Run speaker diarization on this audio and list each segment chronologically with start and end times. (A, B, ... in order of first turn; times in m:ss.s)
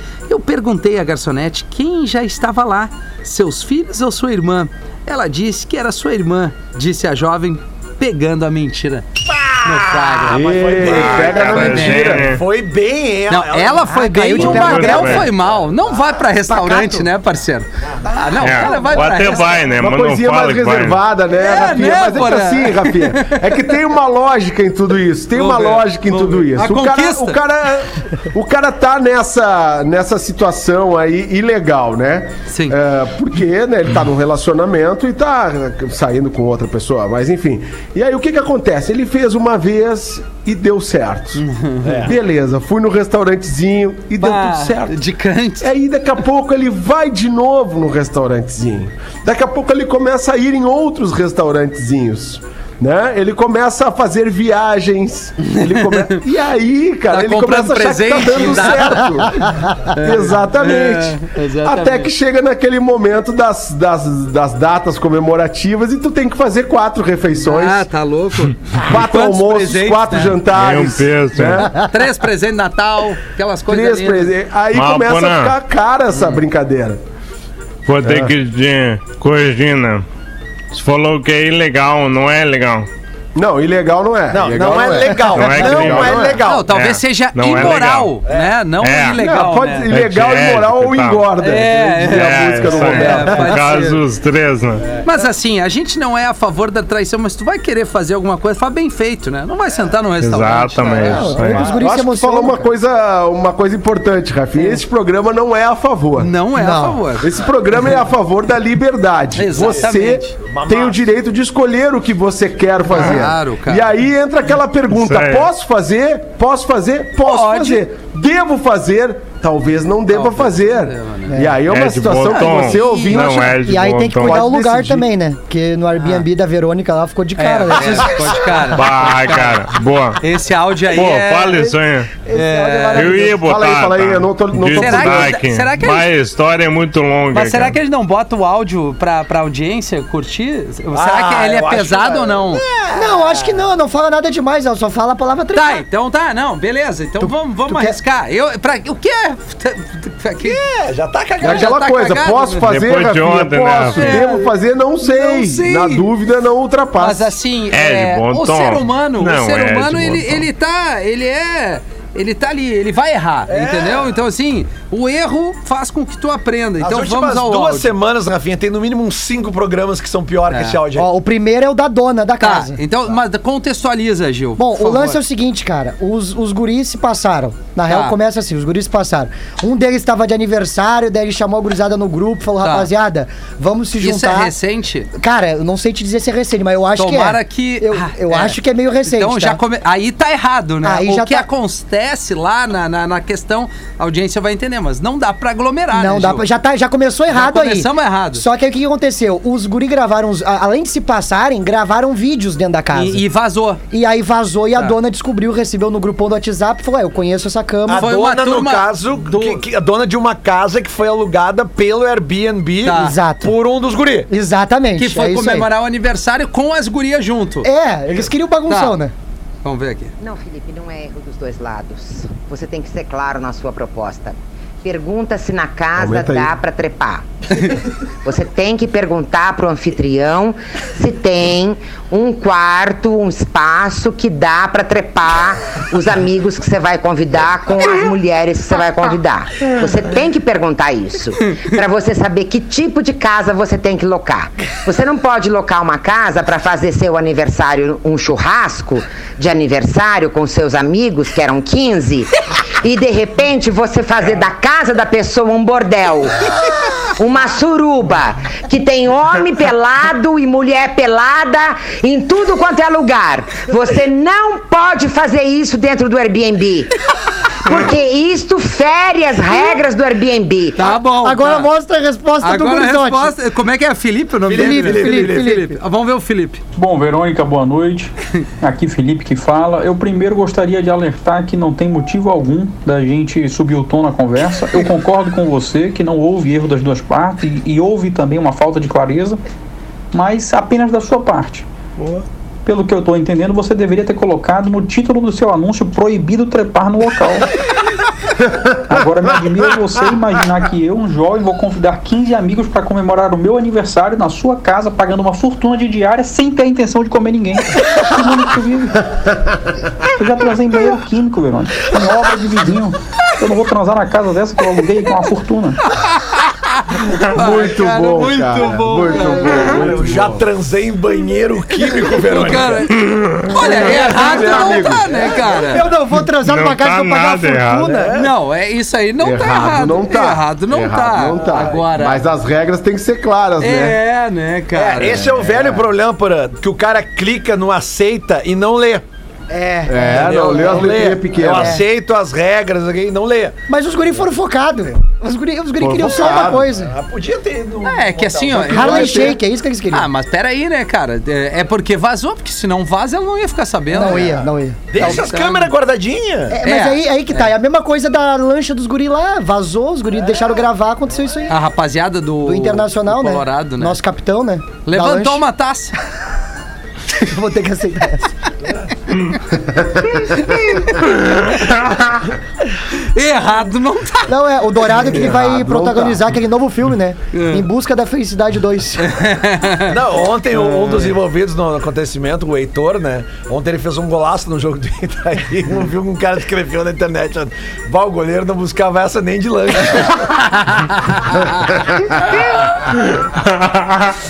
0:00.3-0:12.2 A
0:09.4-0:15.6 B
0:10.3-0:12.3 C
0:11.2-0:12.4 D
0:13.3-0:19.6 A
0:13.9-0:15.3 E
0:14.4-0:15.3 D
0:16.5-0:17.1 E
0:18.4-0:21.0 D
0:19.8-0:41.4 C
0:21.4-0:23.5 A
0:25.3-0:27.4 A
0:32.5-0:32.8 A
0:41.4-0:42.1 A
0:41.8-0:42.1 B
0:42.0-0:45.0 C
0:44.2-0:45.7 A
0:45.6-1:07.9 C
0:55.8-0:56.2 A
0:57.1-0:59.3 A
0:59.9-1:02.1 A
1:07.4-1:10.4 A
1:08.8-1:11.8 C
1:10.5-1:11.7 D
1:11.8-1:14.3 A
1:13.7-1:17.0 C
1:14.7-1:15.6 D
1:16.1-1:16.4 A
1:17.9-1:20.0 D
1:18.0-1:18.3 C
1:20.7-1:22.9 D
1:23.4-1:26.4 C
1:24.3-1:26.7 B
1:25.3-1:28.1 D
1:26.4-1:29.9 A
1:28.3-1:28.6 B
1:28.8-1:29.2 D
1:29.2-1:33.6 C
1:29.9-1:31.2 D
1:31.4-1:34.0 A
1:32.0-1:34.8 D
1:34.8-1:35.2 B
1:35.0-1:41.3 A
1:40.2-1:41.7 D
1:41.0-1:42.7 E
1:41.5-1:41.8 B
1:41.5-1:46.3 C
1:46.2-1:47.3 A
1:46.6-1:47.0 E
1:47.2-2:03.6 C
1:49.4-1:50.3 A
1:49.5-1:51.0 B
1:52.9-1:53.9 A
1:54.9-1:55.5 D
1:57.2-1:57.8 A
2:00.1-2:01.4 A
2:01.3-2:01.6 E
2:01.7-2:04.4 D
2:02.3-2:03.5 A
2:03.6-2:08.6 E
2:04.2-2:05.1 C
2:06.0-2:06.2 A
2:07.4-2:09.7 A
2:08.7-2:10.2 D
2:10.2-2:11.7 A
2:10.9-2:12.1 D
2:12.2-2:13.4 E
2:12.3-2:13.3 A
2:12.9-2:17.8 D
2:13.4-2:15.4 C
2:14.7-2:16.1 A
2:17.3-2:22.6 A
2:20.9-2:23.6 B
2:22.9-2:25.8 E
2:25.5-2:30.6 A
2:27.2-2:28.0 E
2:30.4-2:31.7 B
2:31.4-2:32.7 A
2:31.4-2:37.3 C
2:32.7-2:34.2 D
2:34.0-2:36.1 A
2:37.0-2:47.9 A
2:37.7-2:40.5 D
2:43.5-2:44.2 B
2:46.8-2:51.1 B
2:50.5-2:50.8 A
2:50.9-2:52.8 E
2:52.4-2:55.2 A
2:54.6-3:04.5 E
2:57.9-2:58.2 A
3:02.6-3:02.9 A
3:04.0-3:05.1 A
3:05.1-3:09.6 E
3:07.0-3:16.4 A
3:10.8-3:11.5 E
3:15.9-3:23.2 E
3:17.3-3:18.4 A
3:22.9-3:23.8 A
3:23.9-3:28.1 E
3:27.9-3:34.3 B
3:27.9-3:29.6 A
3:32.8-3:33.2 A
3:32.9-3:33.6 E
3:34.3-3:35.7 E
3:35.0-3:37.7 A
3:37.6-3:39.1 E
3:38.7-3:39.0 A
3:39.6-3:40.1 A
3:40.2-4:16.5 F
3:46.0-3:46.5 C
4:17.2-4:27.0 F
4:27.6-4:30.9 F
4:30.8-4:31.7 A
4:31.2-4:33.3 E
4:32.4-4:36.6 A
4:34.5-4:35.6 B
4:34.5-4:35.7 E
4:36.8-4:49.4 G
4:50.1-4:51.7 G
4:52.6-4:57.5 G
4:58.9-5:09.2 G
5:10.2-5:15.8 G
5:15.9-5:20.0 A
5:17.3-5:20.4 C
5:19.7-5:22.9 B
5:21.8-5:25.8 A
5:23.0-5:23.5 D
5:23.5-5:25.1 C
5:24.1-5:24.6 B
5:25.6-5:28.1 E
5:26.4-5:27.9 D
5:27.8-5:28.3 B
5:28.2-5:32.2 A
5:29.2-5:34.0 C
5:33.6-5:35.3 A
5:34.7-5:39.0 B
5:35.0-5:35.8 C
5:39.5-5:41.0 E
5:39.9-5:41.8 C
5:40.1-5:43.6 B
5:41.6-5:41.8 E
5:43.7-5:46.9 E
5:45.8-5:46.7 C
5:46.8-5:49.2 B
5:47.8-5:49.4 A
5:48.6-5:50.1 E
5:48.7-5:49.3 C
5:49.9-5:54.4 A
5:53.9-5:55.3 E
5:54.0-5:56.6 B
5:55.0-5:55.7 A
5:56.5-6:01.6 E
5:56.6-5:57.5 A
6:01.5-6:04.0 A
6:02.4-6:05.4 E
6:04.8-6:06.0 A
6:07.2-6:08.3 E
6:10.3-6:11.1 A
6:12.8-6:15.0 A
6:14.3-6:19.1 E
6:14.9-6:16.2 C
6:17.3-6:17.7 A
6:19.0-6:19.9 A
6:19.9-6:30.3 B
6:20.6-6:21.1 A
6:30.2-6:31.7 A